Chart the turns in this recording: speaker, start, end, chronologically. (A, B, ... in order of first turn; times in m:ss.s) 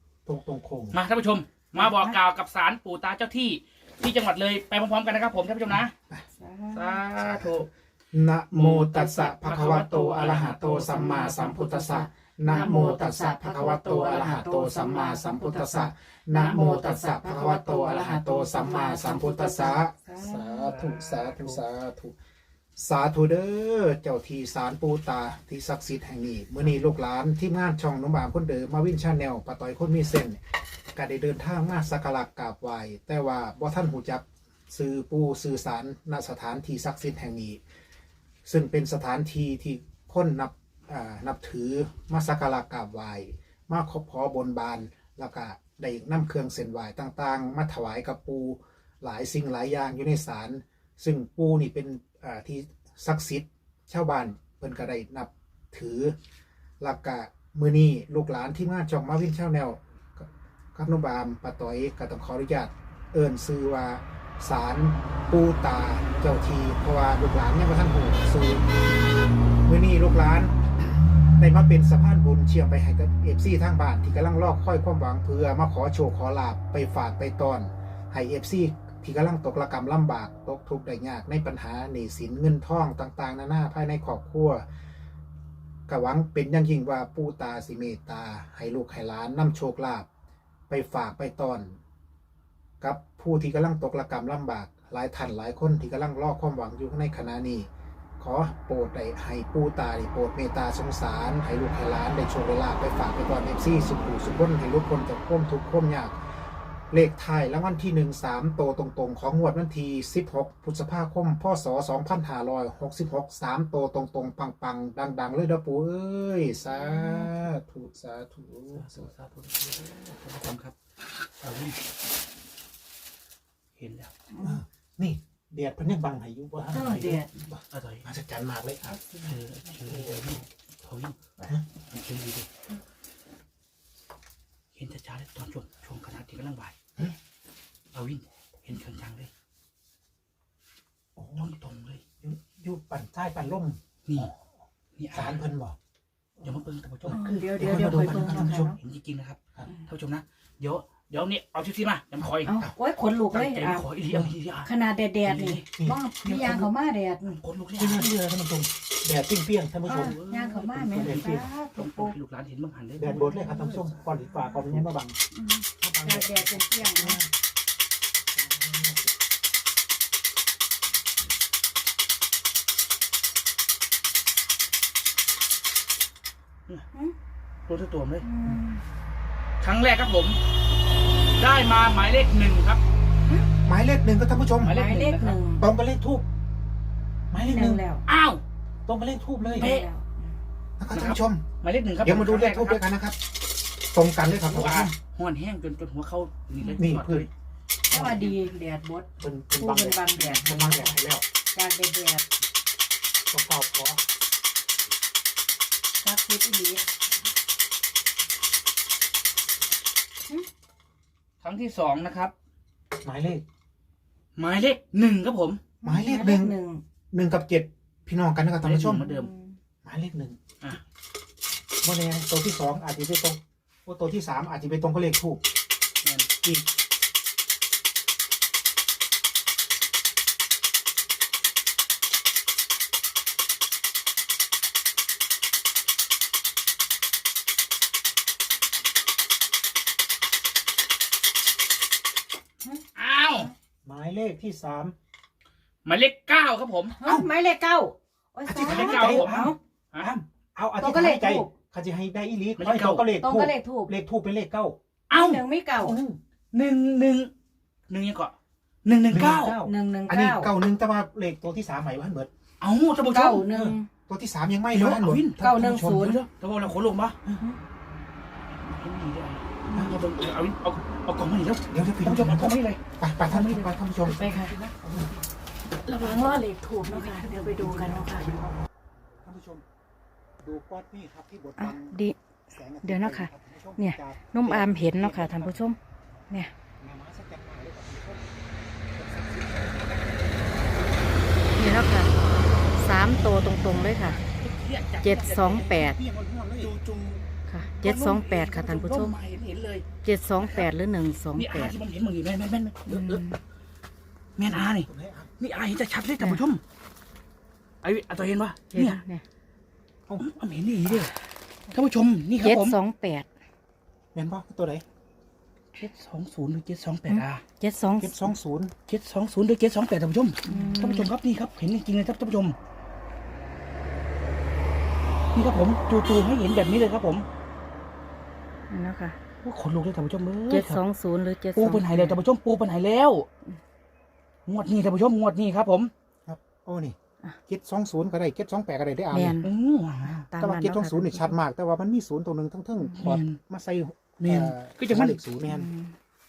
0:00.3-0:01.0 A
0:00.9-0:06.0 B
0:01.8-0:02.2 C
0:06.3-0:07.0 C
0:06.7-0:07.7 B
0:07.2-0:22.2 A
0:08.5-0:11.3 B
0:10.9-0:20.4 C
0:12.5-0:13.2 B
0:20.2-0:21.6 B
0:22.8-0:30.4 A
0:31.0-0:37.6 A
0:38.4-0:56.2 A
0:56.8-1:08.9 A
1:09.6-1:24.7 A
1:25.9-1:30.1 A
1:30.7-1:31.8 A
1:32.8-1:46.2 A
1:46.9-1:59.1 A
1:56.8-1:57.3 C
1:58.7-2:00.8 B
2:01.4-2:01.8 B
2:03.8-2:04.1 B
2:04.3-2:04.6 C
2:04.4-2:10.4 A
2:06.6-2:07.1 B
2:06.7-2:07.3 C
2:07.7-2:08.0 B
2:08.8-2:09.4 C
2:09.2-2:12.5 B
2:14.8-2:16.7 B
2:17.9-2:19.3 B
2:21.2-2:21.5 A
2:21.4-2:22.0 B
2:22.2-2:24.3 A
2:24.1-2:24.3 B
2:25.0-2:25.4 B
2:25.1-2:25.8 A
2:26.4-2:28.7 A
2:26.4-2:32.5 B
2:27.1-2:28.8 C
2:32.2-2:32.7 A
2:32.4-2:33.8 C
2:33.3-2:34.7 B
2:34.1-2:34.3 A
2:34.6-2:37.3 C
2:35.2-2:35.7 B
2:35.8-2:36.7 A
2:37.2-2:38.1 B
2:37.8-2:40.2 A
2:39.9-2:44.8 B
2:39.9-2:42.2 C
2:40.8-2:41.5 A
2:43.0-2:45.2 A
2:45.3-2:47.2 C
2:45.8-2:47.3 A
2:48.3-2:49.1 A
2:57.7-2:58.3 B
2:58.2-2:58.8 C
2:59.6-3:00.4 B
3:01.4-3:02.8 B
3:03.6-3:04.8 A
3:04.6-3:05.4 B
3:04.6-3:05.7 C
3:05.6-3:06.3 A
3:07.3-3:07.8 A
3:07.3-3:08.0 C
3:08.1-3:08.4 B
3:08.9-3:09.7 A
3:09.4-3:10.4 C
3:09.5-3:09.9 B
3:10.8-3:11.5 A
3:10.9-3:12.8 B
3:12.0-3:13.2 A
3:13.9-3:15.0 A
3:14.4-3:17.3 B
3:16.8-3:17.3 A
3:17.9-3:21.0 C
3:17.9-3:18.4 A
3:19.2-3:21.2 A
3:21.5-3:22.3 C
3:23.3-3:24.0 A
3:26.0-3:26.8 C
3:31.4-3:32.3 B
3:33.0-3:33.4 A
3:34.4-3:35.6 B
3:35.8-3:36.8 C
3:35.8-3:36.6 A
3:37.1-3:39.1 A
3:38.6-3:39.3 B
3:39.0-3:39.6 C
3:39.8-3:40.4 A
3:41.8-3:45.4 A
3:46.0-3:46.3 B
4:03.0-4:03.5 B
4:03.8-4:05.0 A
4:05.8-4:07.3 B
4:07.0-4:09.6 C
4:08.5-4:09.5 A
4:08.5-4:10.2 B
4:10.6-4:14.8 A
4:10.8-4:11.5 C
4:12.6-4:13.1 B
4:13.2-4:13.9 C
4:15.1-4:15.4 B
4:15.1-4:16.0 C
4:15.8-4:16.2 A
4:16.5-4:17.3 B
4:17.9-4:19.6 B
4:19.1-4:22.3 A
4:19.6-4:20.5 C
4:22.6-4:23.5 B
4:23.0-4:23.9 C
4:23.5-4:26.2 A
4:24.7-4:27.2 B
4:25.4-4:26.2 C
4:28.6-4:35.2 B
4:29.7-4:30.0 A
4:31.7-4:34.3 A
4:34.1-4:34.6 C
4:35.9-4:38.3 C
4:35.9-4:38.3 B
4:38.2-4:38.5 A
4:39.2-4:39.6 A
4:40.4-4:42.0 A
4:41.6-4:42.2 C
4:42.5-4:45.6 A
4:42.8-4:45.8 C
4:46.8-4:48.3 A
4:48.9-4:51.0 A
4:51.6-4:52.1 C
4:52.8-4:54.2 C
4:53.9-4:55.7 B
4:55.0-4:56.0 C
4:55.4-4:56.8 A
4:56.6-4:57.2 B
4:57.5-4:59.2 C
4:57.8-4:59.9 B
5:00.0-5:01.8 C
5:00.4-5:00.7 B
5:01.4-5:03.3 B
5:02.9-5:03.4 C
5:04.4-5:06.6 B
5:04.5-5:05.3 A
5:07.8-5:09.0 B
5:08.7-5:09.2 C
5:10.2-5:11.2 B
5:11.7-5:12.8 B
5:12.4-5:13.3 C
5:14.1-5:14.8 A
5:15.8-5:17.4 B
5:17.1-5:18.3 C
5:18.0-5:18.8 A
5:18.9-5:22.6 B
5:20.5-5:21.1 C
5:25.3-5:27.3 B
5:28.7-5:29.2 C
5:29.4-5:30.8 B
5:30.5-5:32.2 C
5:31.6-5:33.3 B
5:34.5-5:35.9 B
5:36.3-5:39.4 A
5:39.1-5:39.5 C
5:39.4-5:40.3 B
5:40.3-5:41.4 C
5:40.4-5:45.7 A
5:43.0-5:43.4 B
5:44.2-5:45.2 B
5:45.5-5:46.0 C